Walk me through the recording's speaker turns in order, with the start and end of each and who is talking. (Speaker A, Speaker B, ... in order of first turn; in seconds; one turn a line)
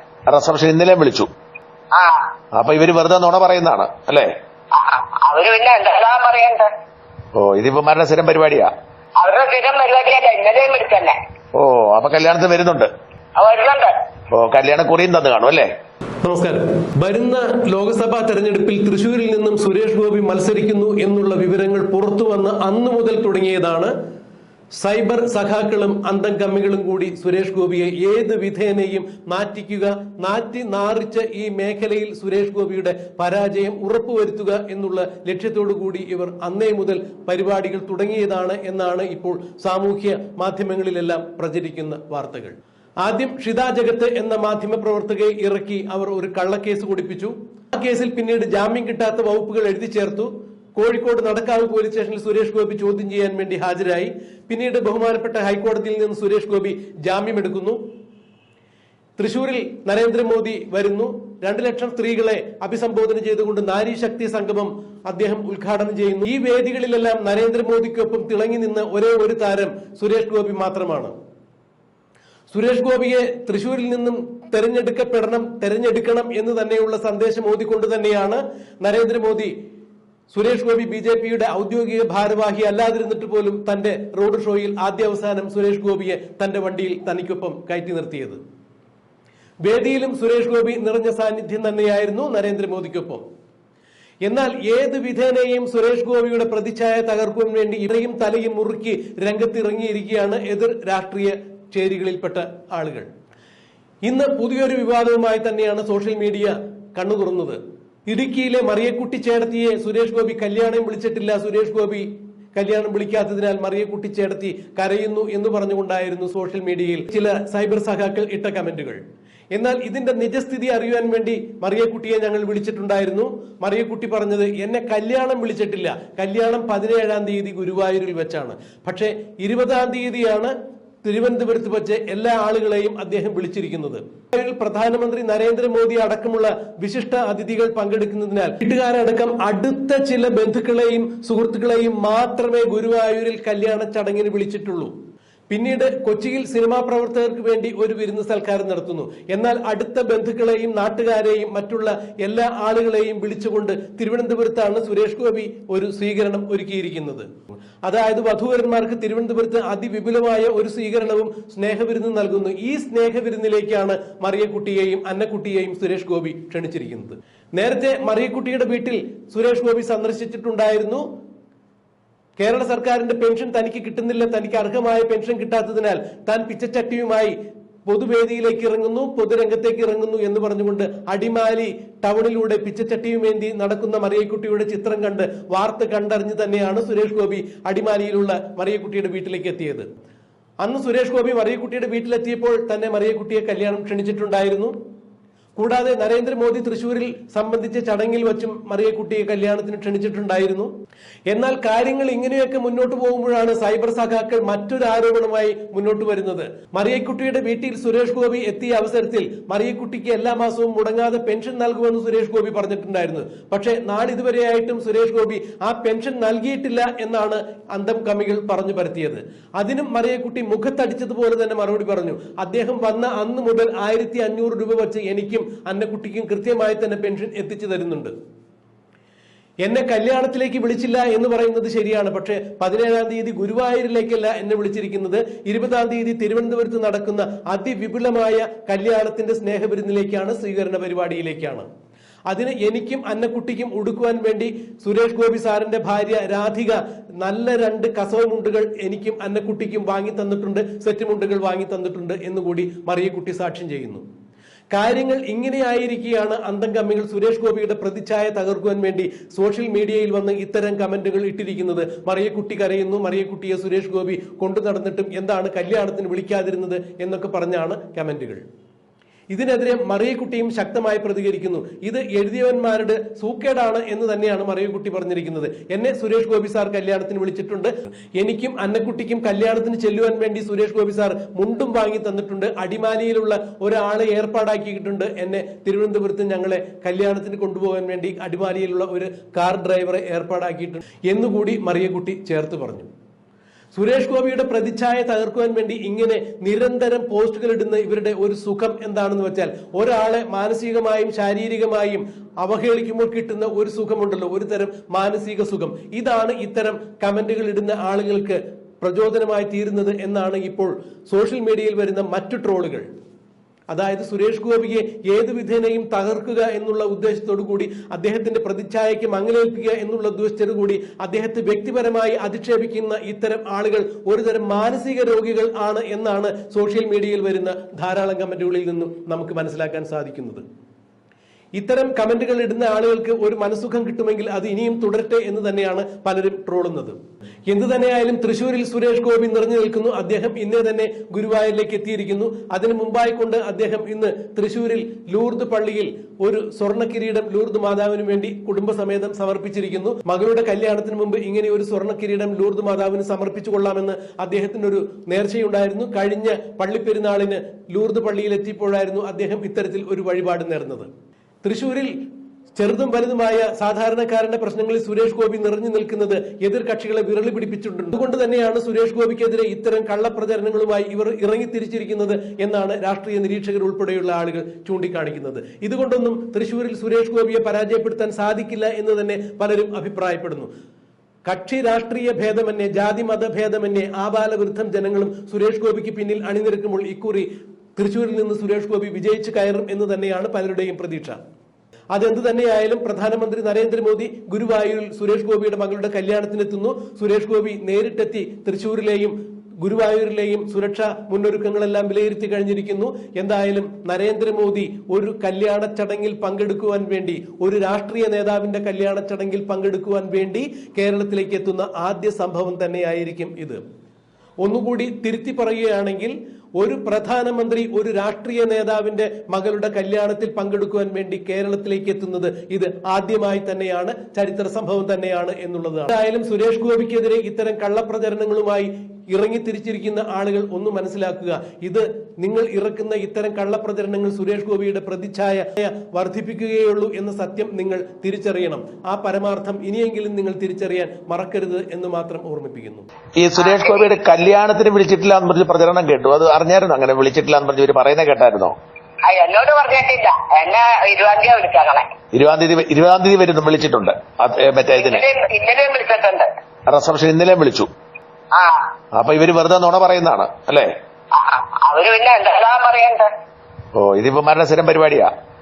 Speaker A: 0.3-1.3
Speaker B: 1.9-2.3
Speaker A: 2.6-4.3
Speaker B: 4.7-6.7
Speaker A: 7.3-8.7
Speaker B: 9.2-11.2
Speaker A: 11.6-12.9
Speaker B: 13.4-13.9
Speaker A: 14.3-15.7
Speaker C: 16.2-23.9
Speaker C: 24.8-57.8
Speaker C: 59.2-71.1
Speaker C: 72.5-79.5
Speaker C: 80.3-88.4
Speaker C: 89.6-93.2
Speaker C: 94.2-103.1
Speaker C: 104.0-107.6
Speaker C: 108.1-119.0
Speaker C: 119.5-130.5
Speaker C: 131.0-144.9
Speaker C: 145.5-157.3
Speaker C: 157.8-171.0
Speaker C: 172.4-177.3
Speaker C: 177.9-189.9
Speaker C: 190.6-194.7
Speaker C: 195.6-200.7
Speaker C: 201.3-228.1
Speaker C: 229.7-241.7
Speaker C: 242.3-254.0
Speaker C: 254.7-268.4
Speaker C: 269.3-292.9
Speaker C: 293.7-312.9
Speaker C: 313.7-330.4
Speaker C: 331.6-336.9
Speaker C: 337.5-360.9
Speaker C: 361.4-361.9
Speaker C: 362.6-380.5
Speaker C: 381.2-391.2
Speaker C: 391.9-413.6
Speaker C: 414.4-442.9
Speaker A: 443.2-448.5
Speaker B: 443.4-443.9
Speaker B: 449.1-451.9
Speaker A: 452.1-455.0
Speaker B: 454.8-456.3
Speaker A: 456.7-457.7
Speaker B: 458.3-458.7
Speaker A: 458.9-460.7
Speaker B: 461.1-463.1
Speaker A: 463.7-465.1